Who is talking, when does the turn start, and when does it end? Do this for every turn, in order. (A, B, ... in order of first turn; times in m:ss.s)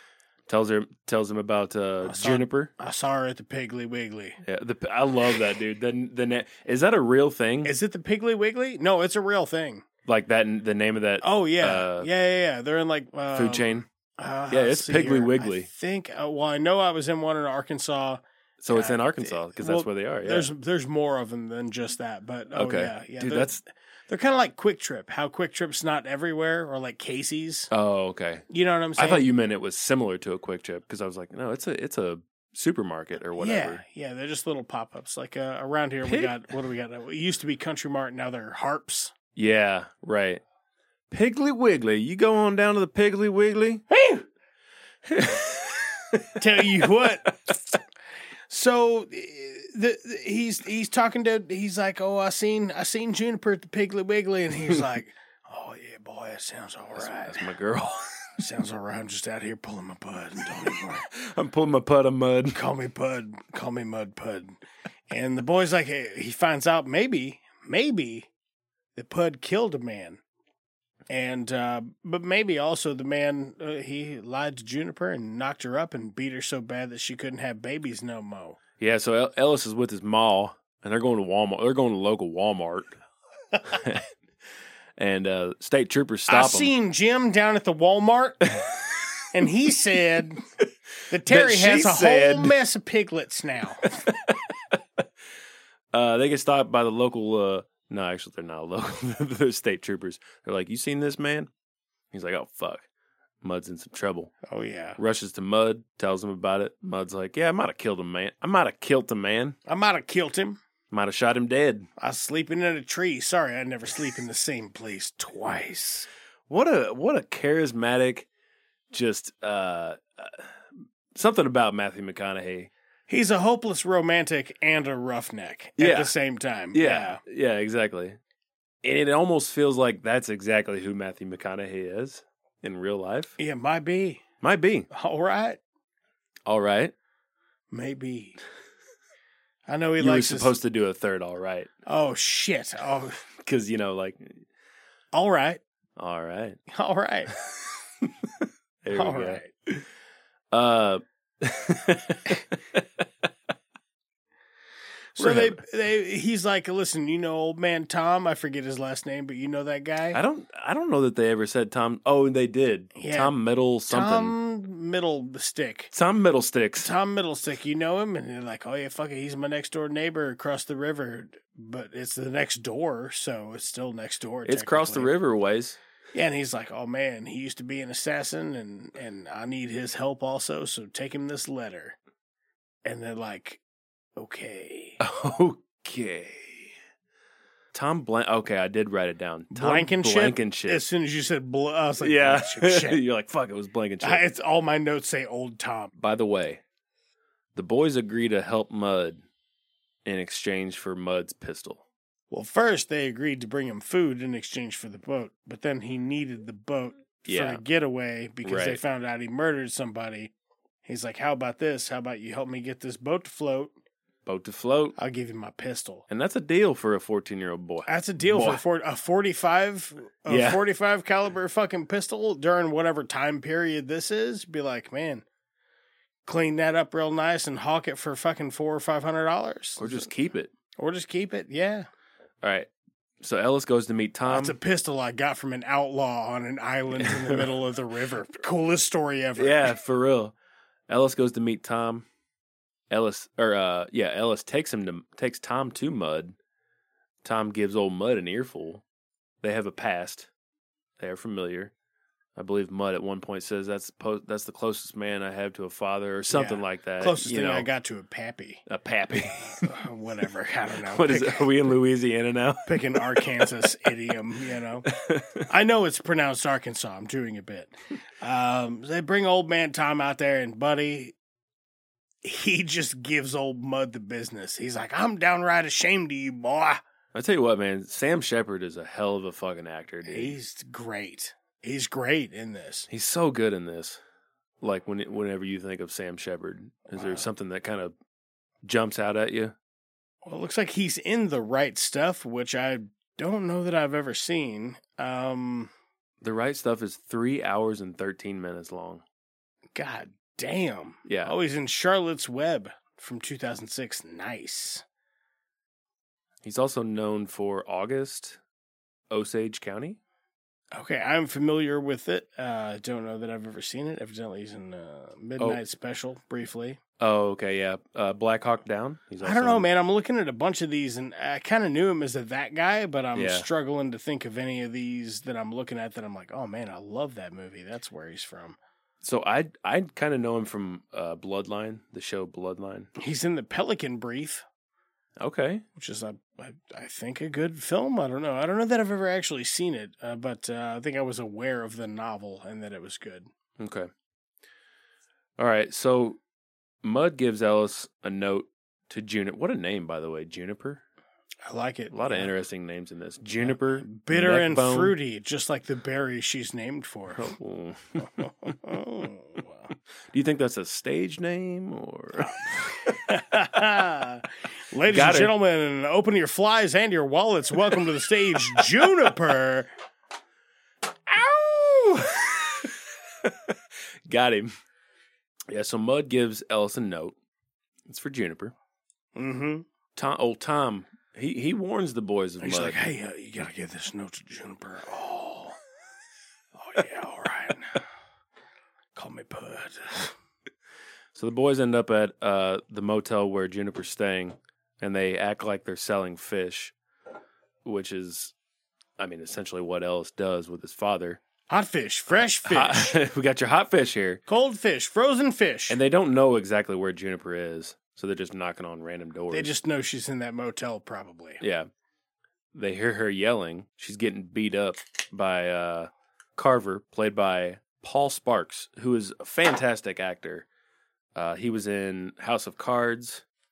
0:00.5-0:02.7 A
0:02.0-0:04.4 B
0:04.4-0:07.7 A
0:07.6-0:09.8 B
0:10.0-0:12.1 A
0:11.2-0:27.7 B
0:13.3-0:13.8 A
0:14.5-0:15.7 A
0:18.6-0:20.5 A
0:22.5-0:23.6 A
0:27.7-0:33.8 A
0:28.5-0:29.3 B
0:33.4-0:39.1 B
0:36.0-0:36.4 A
0:39.4-0:40.4 A
0:41.1-0:43.8 A
0:43.9-0:44.2 B
0:45.1-0:47.3 A
0:46.4-0:47.3 B
0:48.5-0:57.5 B
0:57.0-0:58.3 A
0:58.4-1:01.1 B
1:01.1-1:02.6 A
1:02.5-1:04.6 B
1:05.1-1:08.3 B
1:09.0-1:10.2 B
1:11.1-1:18.6 B
1:18.8-1:22.9 A
1:23.7-1:24.0 A
1:25.0-1:26.7 A
1:26.3-1:28.5 B
1:29.3-1:30.4 B
1:31.1-1:34.0 B
1:31.2-1:32.5 A
1:33.9-1:35.0 A
1:35.9-1:41.5 A
1:42.1-1:42.8 A
1:43.4-1:44.3 A
1:44.4-1:45.0 B
1:45.0-1:49.6 A
1:49.7-1:50.6 B
1:50.9-1:51.9 A
1:52.0-1:56.1 B
1:56.5-1:58.3 A
1:58.9-2:00.5 A
2:01.1-2:02.7 A
2:03.1-2:07.2 B
2:05.8-2:06.1 A
2:06.7-2:08.2 A
2:08.8-2:13.4 A
2:13.4-2:14.2 B
2:14.4-2:14.9 A
2:14.9-2:15.6 B
2:16.4-2:16.9 A
2:17.7-2:18.4 B
2:19.7-2:20.6 B
2:20.0-2:21.7 A
2:21.8-2:23.2 B
2:23.4-2:24.4 A
2:25.1-2:25.6 B
2:26.0-2:26.6 A
2:26.7-2:27.3 B
2:28.8-2:29.8 A
2:28.9-2:29.5 B
2:30.5-2:33.0 A
2:35.2-2:40.2 B
2:35.2-2:35.6 A
2:40.1-2:44.4 A
2:42.9-2:43.4 B
2:43.9-2:45.9 B
2:45.9-2:46.9 A
2:46.8-2:55.1 B
2:54.4-2:55.8 A
2:56.1-3:02.0 B
3:02.8-3:03.6 B
3:04.2-3:05.0 B
3:05.0-3:06.8 A
3:07.7-3:10.8 A
3:09.5-3:13.0 B
3:12.0-3:14.2 A
3:14.0-3:15.9 B
3:16.0-3:16.6 A
3:17.5-3:19.2 A
3:20.0-3:21.8 A
3:22.3-3:30.3 B
3:27.2-3:27.6 A
3:28.4-3:28.8 A
3:30.8-3:33.7 B
3:34.2-3:35.0 A
3:35.0-3:36.0 B
3:36.1-3:38.6 A
3:37.9-3:45.2 B
3:40.3-3:40.6 A
3:46.2-3:50.1 B
3:49.8-3:50.5 A
3:50.8-3:51.9 B
3:52.4-3:52.7 A
3:53.2-3:54.6 A
3:54.2-3:59.7 B
3:56.9-3:57.5 A
3:59.4-4:00.3 A
4:00.9-4:02.0 A
4:02.9-4:06.4 A
4:07.2-4:08.8 A
4:09.4-4:10.3 A
4:11.0-4:11.7 A
4:12.4-4:17.7 A
4:16.3-4:18.6 B
4:18.7-4:19.7 A
4:19.6-4:21.5 B
4:20.8-4:23.5 A
4:22.6-4:24.9 B
4:24.9-4:25.4 A
4:25.5-4:31.1 B
4:32.2-4:36.8 B
4:37.1-4:40.4 A
4:40.0-4:42.9 B
4:42.9-4:44.0 A
4:44.6-4:47.9 A
4:46.9-4:47.3 B
4:48.6-4:49.5 A
4:50.2-4:55.7 B
4:56.2-4:59.0 A
4:59.7-5:04.8 B
5:01.0-5:01.3 A
5:06.4-5:08.4 A
5:09.1-5:10.0 A
5:10.7-5:16.8 B
5:17.0-5:19.7 A
5:19.2-5:28.6 B
5:23.1-5:23.5 A
5:29.0-5:32.9 A
5:33.0-5:34.4 B
5:35.2-5:35.6 A
5:35.8-5:43.3 B
5:43.6-5:43.9 A
5:45.4-5:46.2 A
5:46.8-5:50.8 A
5:51.4-5:52.3 B
5:51.9-5:54.9 A
5:53.4-5:57.3 B
5:57.1-5:58.2 A
5:58.0-5:59.7 B
6:00.1-6:02.9 A
6:02.2-6:09.7 B
6:04.9-6:05.3 A
6:11.1-6:14.5 A
6:15.5-6:17.2 A
6:17.8-6:18.5 A
6:19.2-6:19.6 B
6:20.0-6:22.8 A
6:22.4-6:25.6 B
6:26.6-6:27.8 B
6:29.0-6:30.1 B
6:31.1-6:36.7 A
6:37.6-6:38.3 A
6:39.0-6:41.2 A
6:41.5-6:43.0 B
6:42.1-6:44.2 A
6:44.3-6:45.8 B
6:45.7-6:49.5 A
6:49.3-6:51.4 B
6:51.4-6:51.7 A
6:52.5-7:00.4 A
7:01.1-7:03.2 A